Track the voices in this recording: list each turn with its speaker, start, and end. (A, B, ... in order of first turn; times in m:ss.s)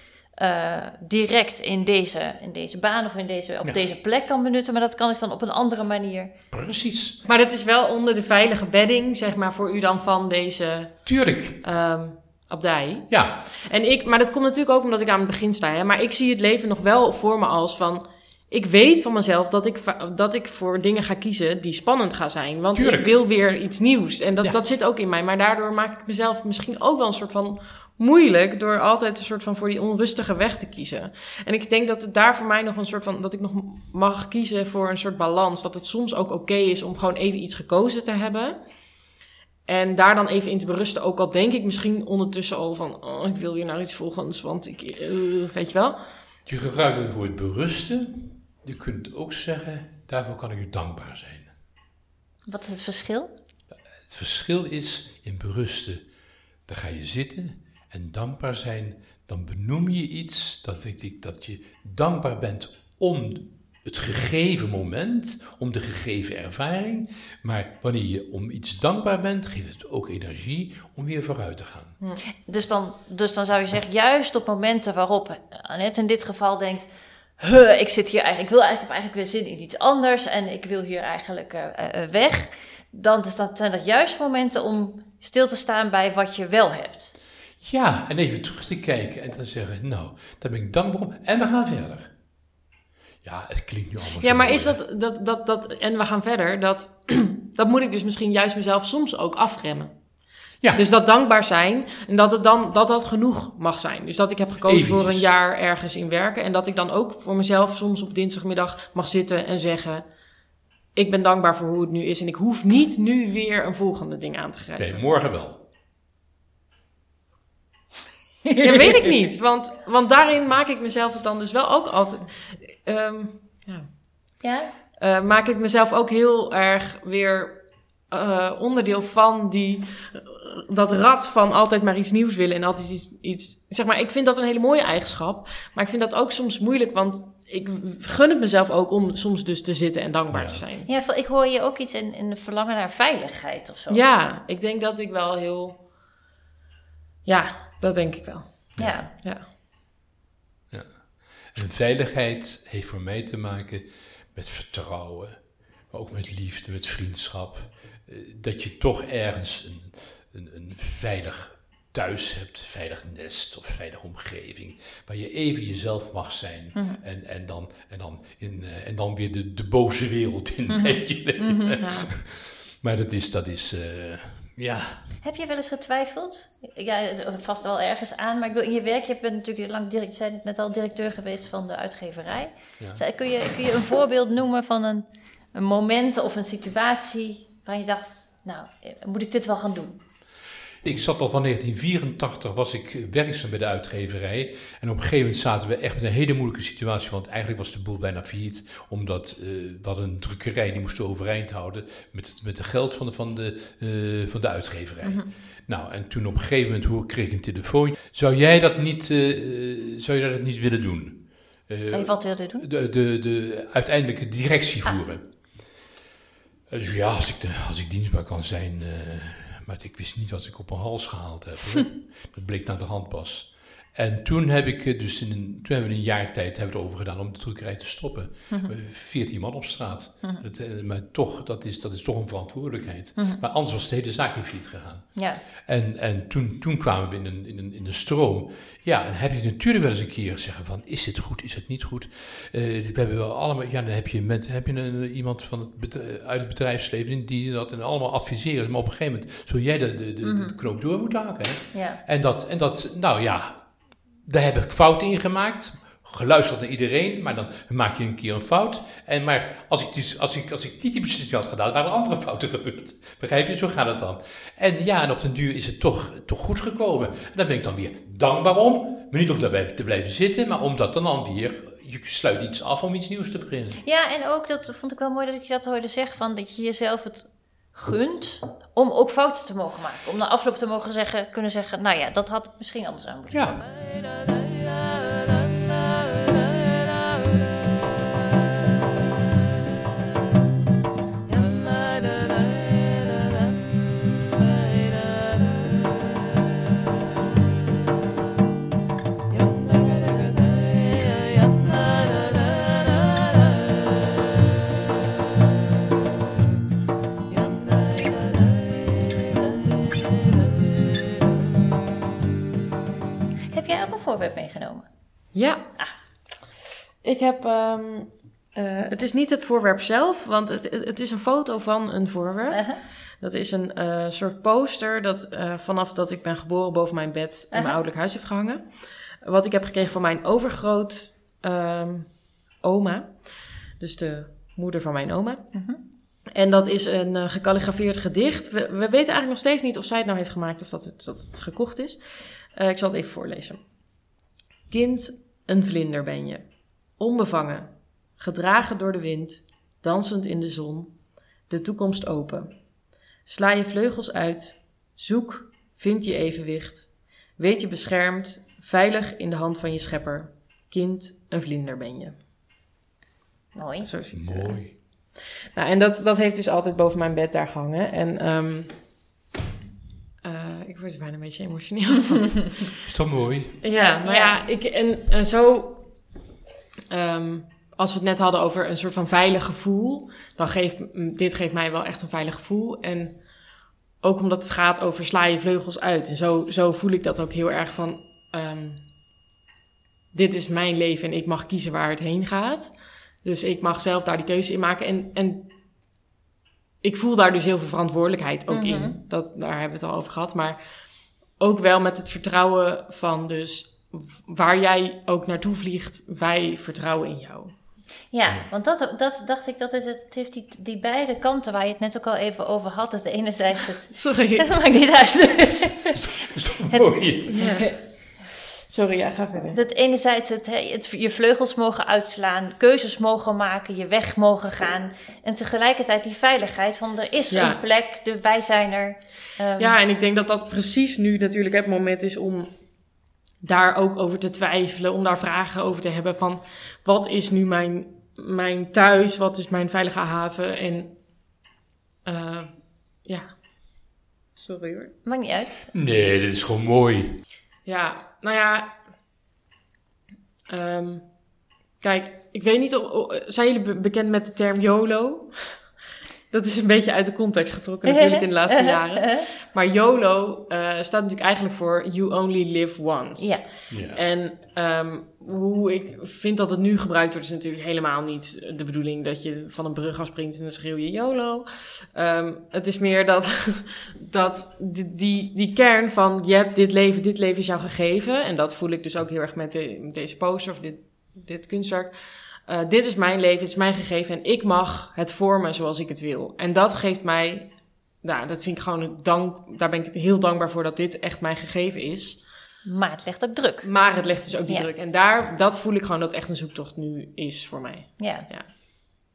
0:00.4-0:06.3 A
0:06.5-0:07.2 B
0:07.2-0:38.6 C
0:11.0-0:11.6 B
0:13.1-0:13.4 B
0:22.7-0:23.1 B
0:39.6-0:46.0 C
0:46.4-0:51.5 B
0:52.5-0:53.3 A
0:54.0-0:56.0 B
0:56.7-1:12.0 B
1:12.4-1:16.9 A
1:17.4-1:27.1 A
1:27.6-1:32.1 B
1:33.2-1:34.8 B
1:34.2-1:40.0 C
1:40.7-1:50.1 C
1:44.6-1:45.3 B
1:50.9-1:55.0 C
1:54.8-1:55.6 B
1:58.6-2:03.9 C
2:04.4-2:04.7 A
2:05.0-2:20.9 C
2:20.3-2:20.6 B
2:20.9-2:24.0 A
2:23.9-2:25.8 C
2:27.2-2:29.5 C
2:28.8-2:29.1 A
2:30.7-2:55.2 B
2:50.7-2:51.8 A
2:51.8-2:52.1 C
2:55.2-3:10.0 A
3:10.8-3:35.2 B
3:25.0-3:25.3 A
3:31.9-3:32.6 A
3:36.7-4:13.6 B
3:53.2-3:53.4 A
3:55.2-3:55.4 A
4:10.2-4:10.6 A
4:11.7-4:12.0 A
4:14.2-4:33.8 B
4:33.8-4:43.7 A
4:43.3-4:43.6 B
5:13.5-5:14.8 A
5:15.3-5:15.7 C
5:17.0-5:22.7 C
5:22.5-5:22.8 A
5:23.2-5:35.5 C
5:27.5-5:27.8 A
5:35.5-5:35.8 A
5:36.3-5:43.6 C
5:44.7-5:46.4 C
5:47.0-5:50.9 C
5:51.5-5:52.5 C
5:53.2-6:02.2 C
6:03.5-6:03.9 A
6:03.8-6:04.6 C
6:04.1-6:04.7 B
6:05.5-6:08.7 C
6:10.2-6:12.7 C
6:12.8-6:13.6 B
6:13.6-6:15.9 C
6:13.7-6:14.4 A
6:16.9-6:23.2 C
6:24.0-6:28.8 C
6:30.1-6:35.5 C
6:36.8-6:40.6 C
6:38.5-6:39.0 A
6:41.3-6:47.6 C
6:48.1-6:56.0 A
6:53.9-6:54.5 C
6:55.9-6:57.5 B
6:56.7-6:57.7 A
6:57.3-6:57.7 C
6:58.7-6:59.6 C
6:59.5-7:09.8 A
7:07.3-7:07.6 C
7:09.6-7:12.5 C
7:13.4-7:20.9 C
7:22.0-7:23.3 C
7:24.4-7:24.9 C
7:25.0-7:25.7 A
7:25.7-7:27.2 B
7:27.6-7:28.8 C
7:30.5-7:31.1 C
7:31.8-7:35.7 C
7:36.3-8:12.2 C
7:37.8-7:39.2 A
7:43.2-7:43.4 A
7:43.7-7:44.0 B
8:12.6-8:13.8 A
8:13.6-8:18.5 C
8:18.0-8:18.3 A